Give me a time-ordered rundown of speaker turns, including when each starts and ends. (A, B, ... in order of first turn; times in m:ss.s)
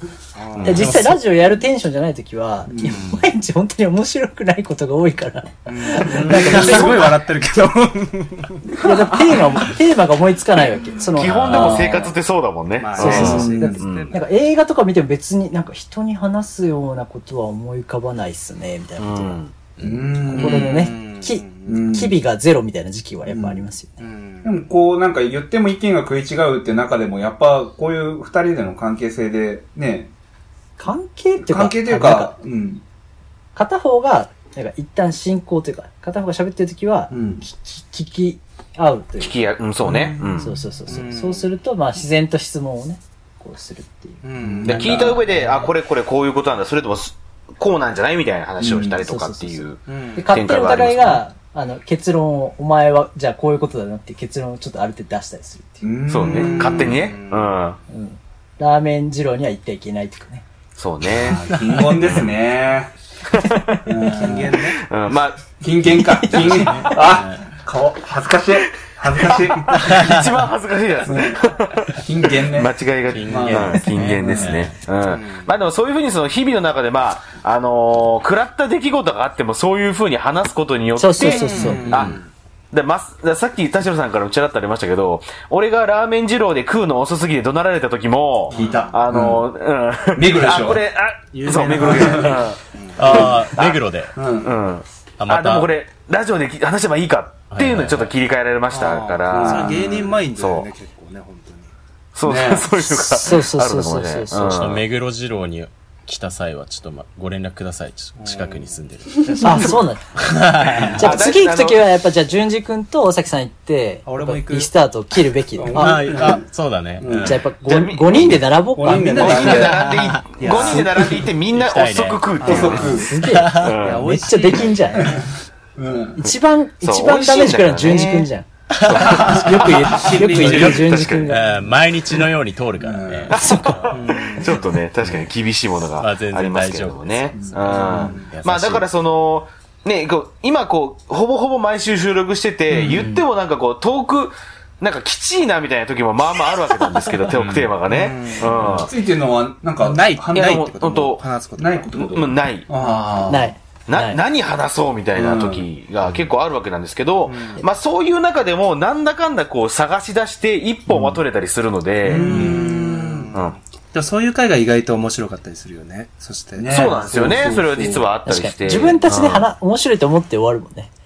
0:00.4-0:01.0 A
0:00.6-0:01.2 B
0:00.6-0:07.1 C
0:02.7-0:03.0 D
0:02.9-0:03.3 B
0:05.7-0:08.8 A
0:06.0-0:07.1 D
0:08.7-0:09.6 D
0:08.8-0:12.0 C
0:11.2-0:14.1 E
0:11.4-0:12.2 D
0:12.8-0:14.2 A
0:13.0-0:19.4 C
0:13.0-0:13.8 D
0:19.0-0:19.5 E
0:19.8-0:20.9 D
0:20.3-0:22.0 A
0:20.3-0:24.0 C
0:21.7-0:22.2 D
0:23.3-0:23.6 D
0:24.0-0:24.6 A
0:24.4-0:30.1 D
0:30.8-0:32.3 C
0:31.4-0:32.8 D
0:33.6-0:39.4 C
0:37.1-0:37.4 D
0:39.2-0:40.5 E
0:39.8-0:40.4 D
0:40.4-0:45.7 C
0:40.9-0:41.5 A
0:44.2-0:45.0 A
0:44.4-0:45.2 D
0:44.6-0:51.2 E
0:48.6-0:49.0 D
0:49.0-0:55.8 C
0:49.9-0:50.4 A
0:55.8-0:57.1 D
0:56.1-0:57.8 E
0:56.2-0:57.6 A
0:57.9-1:00.5 C
1:00.8-1:01.4 E
1:01.1-1:02.9 D
1:01.5-1:01.8 B
1:02.0-1:02.3 E
1:03.3-1:03.8 E
1:03.9-1:04.6 D
1:04.1-1:04.8 A
1:04.8-1:05.4 E
1:05.6-1:10.2 D
1:06.0-1:06.5 C
1:06.3-1:07.5 B
1:06.4-1:06.8 E
1:09.2-1:22.2 E
1:09.8-1:10.2 B
1:11.0-1:12.8 D
1:13.1-1:14.8 B
1:13.3-1:14.6 D
1:15.0-1:15.5 A
1:21.0-1:21.9 C
1:21.2-1:22.3 A
1:21.9-1:22.2 B
1:22.7-1:33.8 E
1:28.5-1:29.0 A
1:28.5-1:29.4 D
1:30.1-1:30.8 D
1:31.3-1:33.3 A
1:31.8-1:32.4 D
1:33.0-1:34.2 B
1:34.2-1:34.5 D
1:34.4-1:40.7 E
1:35.2-1:35.7 B
1:37.5-1:38.1 B
1:38.7-1:41.7 A
1:39.3-1:40.2 D
1:42.2-1:44.8 E
1:42.2-1:42.7 D
1:42.9-1:44.7 C
1:44.5-1:49.6 B
1:48.2-1:49.8 A
1:49.4-1:50.0 C
1:50.2-1:51.1 B
1:50.8-1:51.9 E
1:51.0-1:56.2 C
1:54.1-1:54.7 A
1:55.6-1:56.4 D
1:55.8-1:57.4 B
1:57.0-1:57.4 D
1:57.2-1:59.6 C
1:57.6-1:58.4 E
1:58.8-1:59.9 D
1:58.9-2:01.2 A
1:59.2-2:03.0 E
1:59.7-2:03.8 B
2:00.5-2:01.1 D
2:02.4-2:03.0 A
2:02.4-2:03.1 D
2:02.8-2:05.2 C
2:03.6-2:04.1 E
2:03.8-2:05.2 A
2:05.0-2:06.2 D
2:06.2-2:11.6 C
2:06.8-2:08.3 E
2:08.7-2:09.4 B
2:08.9-2:11.3 E
2:09.0-2:09.7 D
2:09.8-2:11.0 A
2:10.4-2:13.4 B
2:12.8-2:13.4 D
2:13.3-2:28.9 E
2:13.3-2:14.0 C
2:13.9-2:14.8 A
2:15.0-2:15.3 B
2:16.0-2:17.5 B
2:17.3-2:18.2 D
2:17.5-2:18.3 A
2:18.3-2:18.9 B
2:22.7-2:23.1 D
2:23.0-2:23.2 C
2:27.3-2:27.7 B
2:27.9-2:28.9 A
2:28.6-2:30.7 D
2:29.8-2:32.0 A
2:30.3-2:31.3 E
2:31.6-2:33.5 D
2:32.0-2:32.7 E
2:32.8-2:33.3 A
2:33.3-2:34.2 C
2:33.9-2:42.7 E
2:35.2-2:35.7 D
2:37.3-2:37.6 A
2:42.0-2:43.3 D
2:42.0-2:48.0 A
2:46.6-2:48.0 D
2:46.7-2:49.5 E
2:48.3-2:50.9 C